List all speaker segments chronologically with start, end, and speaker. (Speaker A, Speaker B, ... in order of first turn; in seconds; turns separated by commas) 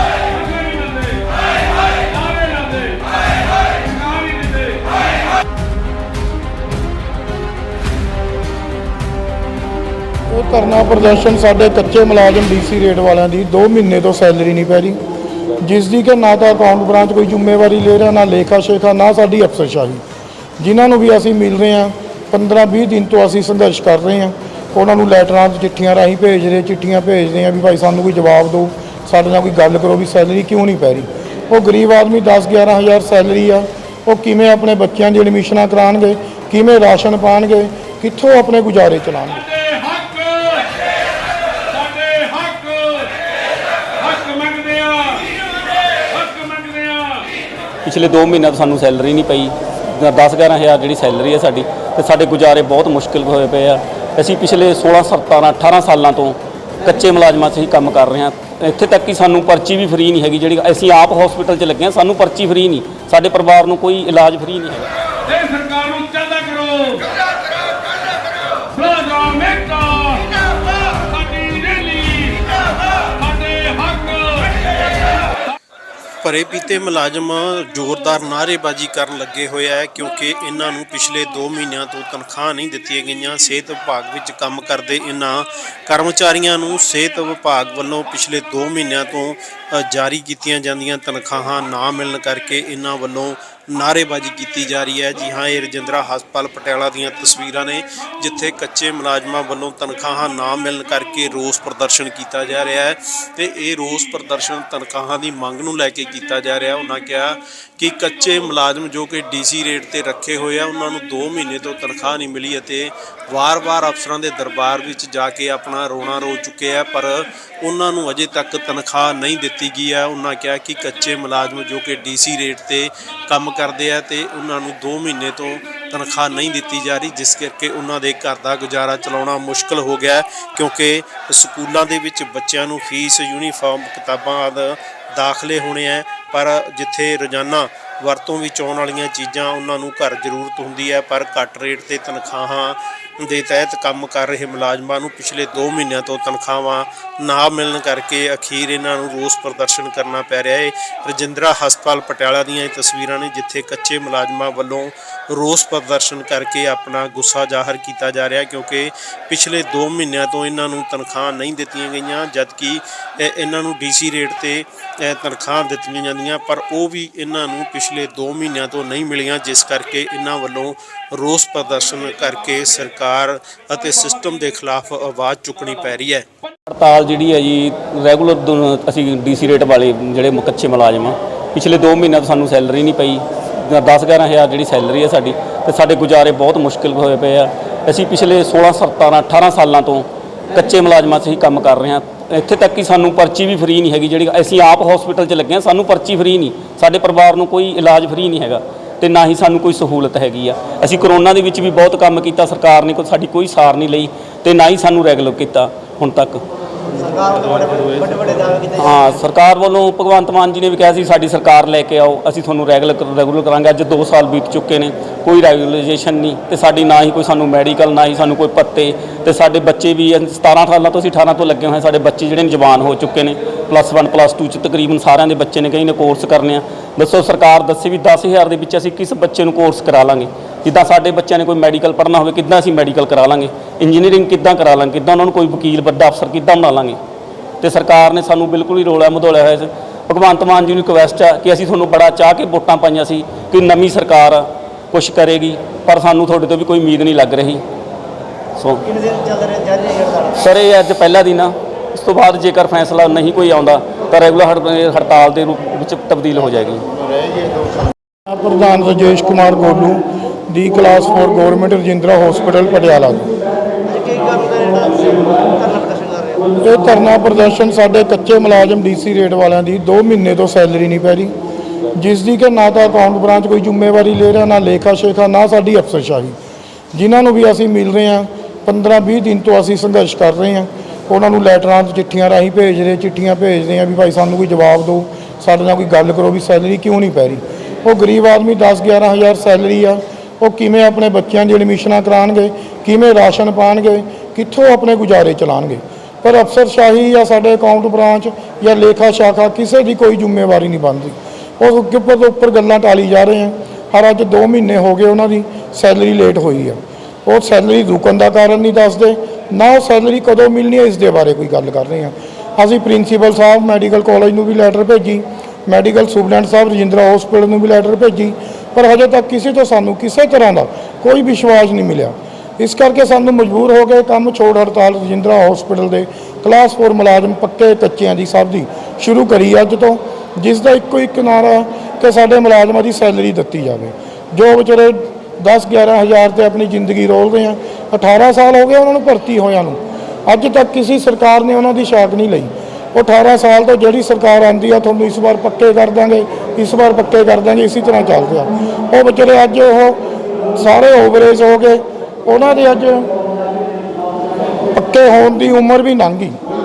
Speaker A: 0.3-1.3, Speaker A: 2.1-3.1, Speaker A: 3.8-4.9, Speaker B: 10.3-15.0, Speaker B: 15.6-20.0, Speaker B: 20.6-39.6, Speaker A: 39.6-40.7, Speaker A: 41.7-43.2, Speaker A: 44.0-45.3, Speaker A: 45.9-47.3, Speaker C: 47.8-64.9, Speaker A: 65.3-67.1, Speaker A: 68.7-72.5, Speaker C: 69.5-69.9, Speaker A: 73.0-74.5, Speaker D: 76.2-176.3, Speaker C: 176.7-206.4, Speaker E: 207.0-208.7, Speaker C: 208.7-237.0, Speaker C: 237.6-247.6, Speaker C: 248.6-248.8, Speaker E: 248.9-250.3, Speaker C: 250.3-256.9, Speaker E: 257.1-257.9, Speaker B: 258.3-263.3, Speaker E: 263.9-266.6, Speaker B: 266.6-271.3, Speaker B: 271.9-276.4, Speaker B: 276.9-350.0, Speaker B: 350.5-353.1, Speaker B: 354.7-356.4